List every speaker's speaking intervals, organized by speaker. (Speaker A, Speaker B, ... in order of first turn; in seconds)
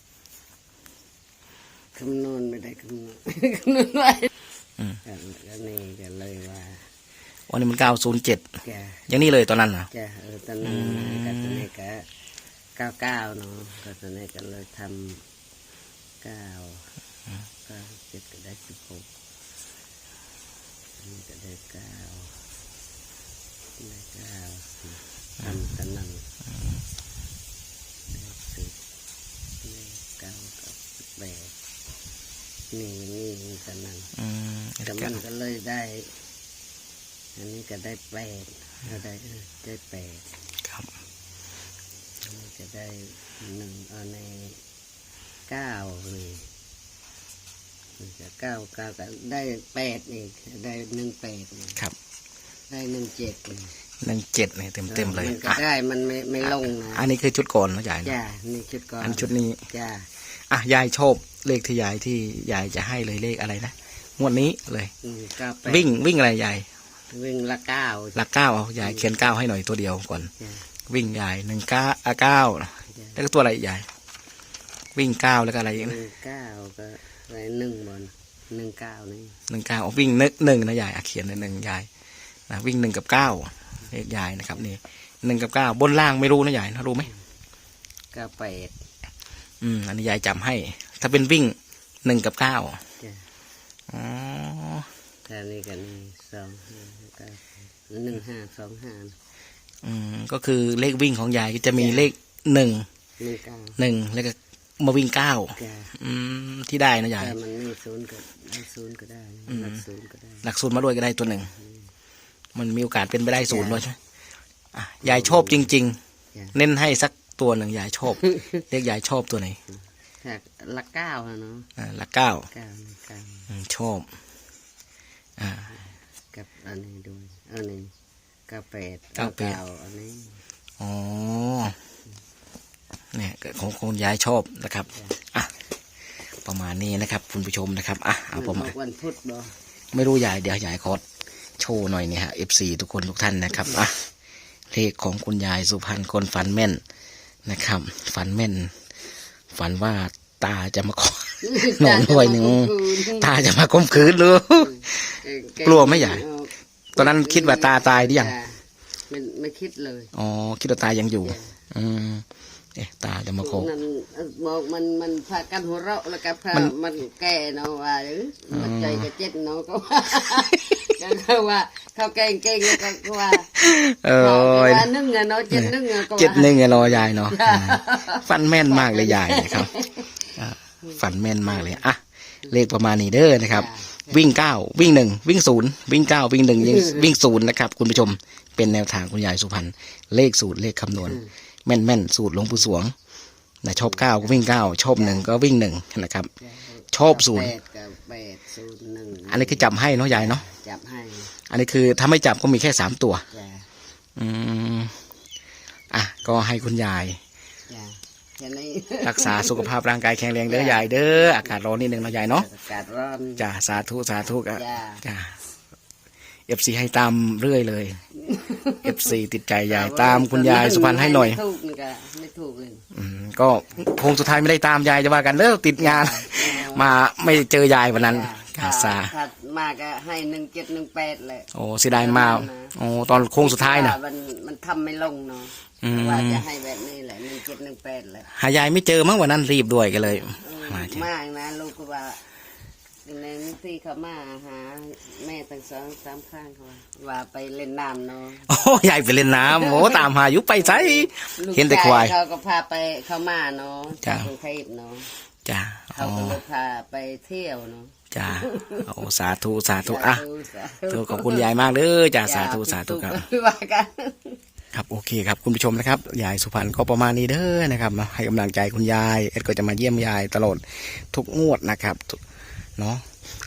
Speaker A: 1.9-4.3, 5.0-6.8, 8.6-9.0, 9.9-12.1, 12.8-15.2, 16.2-16.9, 17.7-19.1, 21.0-22.3, 23.8-26.3, 28.1-28.8, 29.6-31.5, 32.7-34.1, 34.9-36.1, 37.4-40.2, 42.2-44.6, 45.5-46.5, 48.0-51.8, 52.7-53.7, 54.9-57.0, 58.0-60.1, 65.0-65.9, 67.1-68.2, 68.8-69.1, 70.4-70.6, 72.9-73.2, 75.7-79.4, 88.1-88.8, 93.0-93.2, 95.2-99.1, 101.7-102.1, 103.2-103.8, 105.5-105.9, 107.2-110.5, 111.5-111.9, 113.5-113.8, 115.0-115.7, 118.1-118.6, 120.2-121.7, 122.5-123.5, 126.3-127.9, 128.5-130.4, 138.3-139.5, 151.4-153.4, 154.6-160.1, 161.2-161.6, 163.4-173.5, 174.2-180.3, 181.5-181.8, 183.5-184.2, 193.8-195.2, 196.4-201.3, 203.3-203.7, 207.7-209.7, 210.5-213.5, 214.5-215.0, 218.2-219.1, 219.7-222.9, 225.8-226.9, 227.9-232.7, 233.4-238.3, 240.1-242.2, 243.1-248.5, 249.4-255.1, 255.9-258.9, 259.8-261.6, 262.2-264.4
Speaker B: 7.5-8.5, 9.1-9.9, 10.6-11.6, 34.1-35.2, 40.6-40.9, 54.0-55.6, 56.4-58.1, 59.0-59.6, 60.5-64.9, 65.6-66.7, 68.2-70.3, 70.9-73.9, 75.0-76.0, 79.5-81.9, 82.5-87.1, 89.6-92.8, 93.9-94.9, 99.8-102.9, 103.8-107.3, 109.5-109.8, 110.4-111.5, 112.5-114.0, 114.7-116.0, 116.5-119.6, 121.8-122.5, 123.5-124.1, 125.4-125.7, 129.2-129.6, 130.8-131.8, 133.1-135.5, 136.4-138.7, 139.9-141.0, 141.6-144.1, 144.7-146.8, 147.5-148.8, 149.5-156.2, 157.0-158.3, 160.1-163.7, 168.5-169.1, 173.5-174.9, 175.5-179.7, 180.4-192.9, 193.6-196.3, 196.9-197.5, 199.3-200.4, 201.5-203.2, 204.2-205.0, 205.9-207.2, 209.0-212.5, 213.4-215.4, 216.5-218.0, 218.8-221.4, 222.9-229.1, 231.5-234.0, 235.8-236.4, 238.3-241.1, 248.5-252.1, 254.0-254.3, 255.4-256.4, 258.1-260.2, 260.9-263.2, 264.7-272.2, 272.8-273.0